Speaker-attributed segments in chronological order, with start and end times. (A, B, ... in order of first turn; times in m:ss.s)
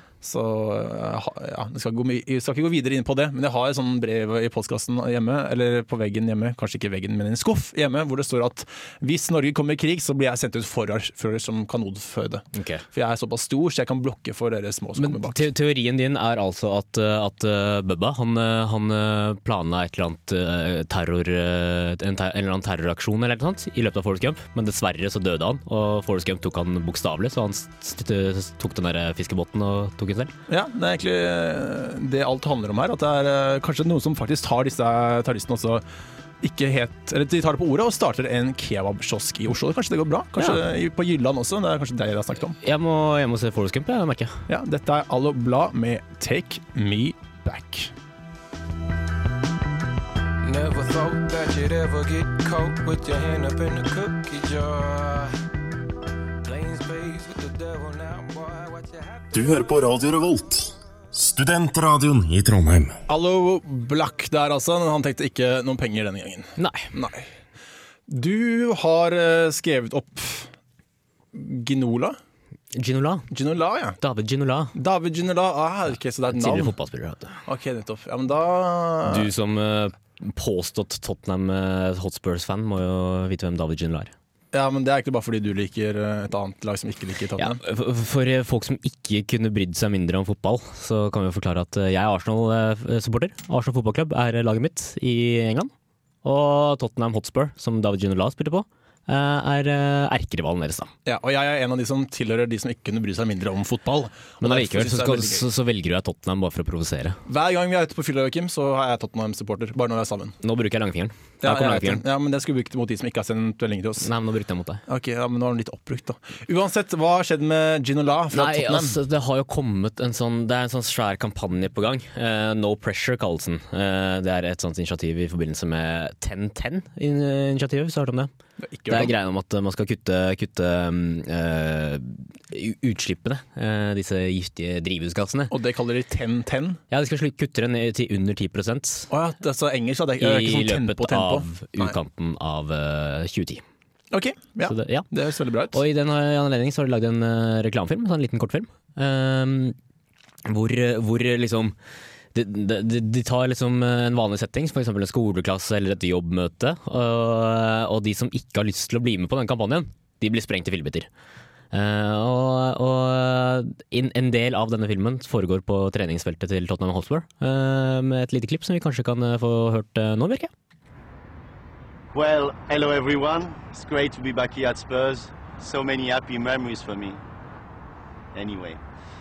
0:00.2-0:15.5 A
0:12.5-0:12.8 B
0:15.0-0:30.3 B
0:30.5-0:35.8 A
0:36.4-0:42.6 A
0:42.6-0:44.4 B
0:44.5-0:47.9 A
0:50.4-0:55.3 C
0:56.4-0:59.3 C
0:59.3-1:03.0 D
1:03.1-1:07.3 A
1:06.6-1:06.9 B
1:08.1-1:10.5 A
1:11.3-1:12.2 A
1:12.8-1:13.3 B
1:13.3-1:14.0 A
1:14.0-1:14.7 B
1:14.8-1:16.7 A
1:16.3-1:17.4 B
1:17.5-1:19.3 A
1:19.1-1:24.1 B
1:24.5-1:27.6 A
1:27.4-1:35.7 B
1:36.2-1:40.9 B
1:41.0-1:45.5 A
1:44.4-1:47.2 B
1:47.3-1:50.4 A
1:50.4-1:52.0 B
1:51.4-1:54.1 A
1:54.0-1:54.8 B
1:54.9-1:59.0 A
1:58.3-2:08.3 B
2:08.6-2:09.1 A
2:08.9-2:15.5 B
2:15.5-2:16.8 A
2:16.9-2:19.1 B
2:19.1-2:22.0 A
2:20.2-2:23.6 B
2:24.1-2:25.8 A
2:24.7-2:25.1 B
2:25.7-2:29.8 B
2:30.5-2:31.8 B
2:32.3-2:41.1 B
2:41.7-2:50.5 B
2:52.1-2:57.2 E
2:58.3-2:58.8 E